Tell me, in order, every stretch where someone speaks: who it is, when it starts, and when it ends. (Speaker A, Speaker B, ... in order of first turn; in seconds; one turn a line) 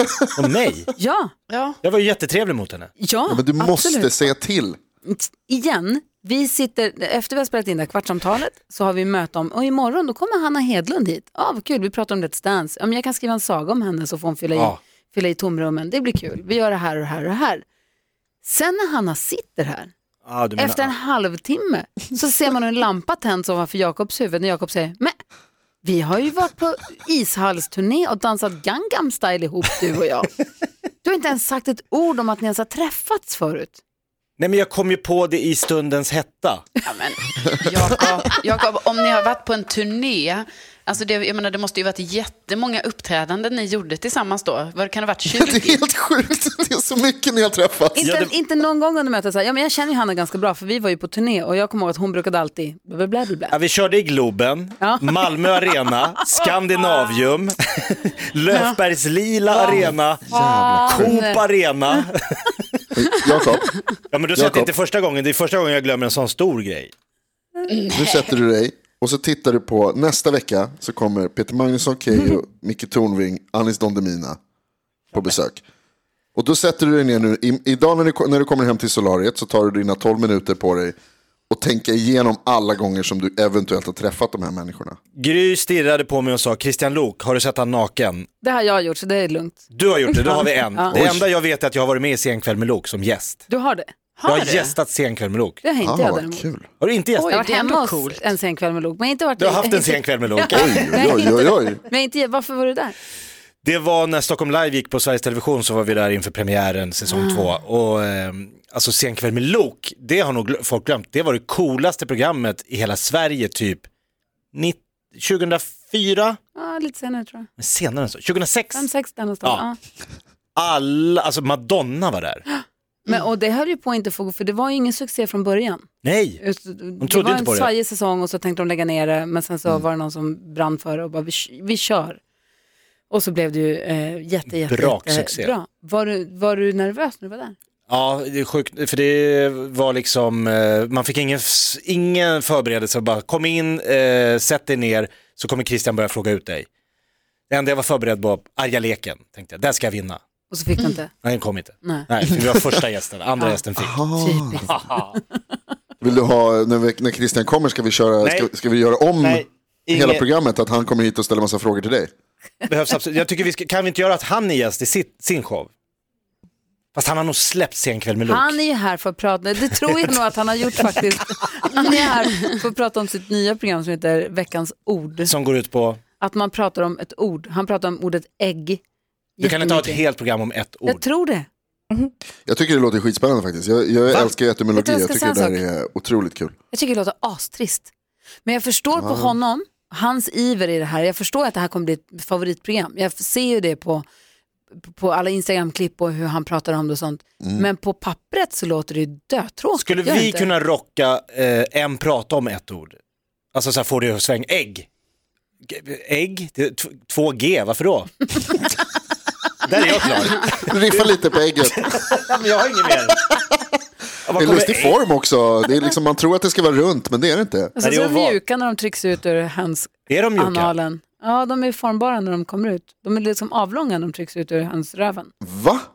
Speaker A: 0.3-0.9
Speaker B: 0.9-1.3
Speaker C: 1.5-1.8
Speaker A: 1.8-2.9
Speaker B: 3.0-4.3
Speaker D: 3.3-4.8
Speaker B: 5.0-17.6
Speaker B: 18.4-19.9
Speaker A: 20.2-20.9
Speaker B: 20.6-25.1
Speaker B: 25.8-30.3
Speaker B: 31.0-33.8
Speaker A: 34.4-36.8
Speaker C: 36.8-45.8
Speaker D: 45.4-48.1
Speaker B: 47.9-53.6
Speaker A: 48.0-48.3
Speaker A: 53.5-60.3
Speaker B: 54.8-57.0
Speaker B: 59.5-61.4
Speaker D: 59.7-61.2
Speaker A: 60.8-62.8
Speaker D: 62.9-63.7
Speaker A: 64.1-66.9
Speaker D: 64.3-64.7
Speaker C: 67.7-68.4
Speaker D: 67.9-74.4
Speaker D: 75.1-75.6
Speaker D: 76.3-80.9
Speaker D: 81.5-85.0
Speaker A: 85.2-88.3
Speaker B: 88.4-89.6
Speaker A: 89.7-93.4
Speaker B: 90.7-90.9
Speaker D: 90.9-91.3
Speaker B: 93.5-93.9
Speaker C: 94.2-94.7
Speaker A: 94.2-95.6
Speaker B: 95.6-96.4
Speaker D: 95.8-96.7
Speaker A: 96.8-97.4
Speaker C: 97.2-98.3
Speaker B: 97.3-102.9
Speaker A: 99.4-100.8
Speaker D: 100.5-101.8
Speaker A: 103.6-113.8
Speaker A: 114.5-116.4
Speaker B: 116.5-117.5
Speaker A: 117.6-118.9
Speaker B: 118.7-119.8
Speaker A: 120.5-122.4
Speaker B: 122.5-125.9
Speaker A: 126.0-126.4
Speaker B: 126.4-132.2
Speaker A: 127.0-127.7
Speaker B: 133.1-137.5
Speaker A: 134.5-135.5
Speaker A: 137.9-146.7
Speaker A: 147.5-150.2
Speaker B: 150.5-151.1
Speaker A: 151.2-154.0
Speaker D: 153.8-154.7
Speaker B: 154.1-155.3
Speaker A: 154.7-155.1
Speaker D: 156.0-162.1
Speaker A: 158.2-158.5
Speaker A: 159.2-160.2
Speaker A: 162.7-165.7
Speaker A: 166.9-168.5
Speaker B: 168.2-175.3
Speaker A: 175.2-176.0
Speaker B: 176.2-178.8
Speaker B: 179.4-180.0
Speaker A: 179.4-181.0
Speaker B: 180.8-181.5
Speaker D: 182.4-186.5
Speaker B: 184.7-185.6
Speaker B: 186.7-187.9
Speaker B: 188.4-194.1
Speaker D: 188.9-189.4
Speaker B: 194.8-200.5
Speaker D: 197.4-197.7
Speaker A: 199.8-203.0
Speaker A: 203.5-204.9
Speaker A: 205.7-208.7
Speaker A: 209.6-213.2
Speaker D: 210.6-212.0
Speaker A: 214.2-215.0
Speaker D: 214.3-217.7
Speaker B: 217.8-225.3
Speaker A: 217.8-218.4
Speaker A: 220.1-220.7
Speaker D: 225.4-225.8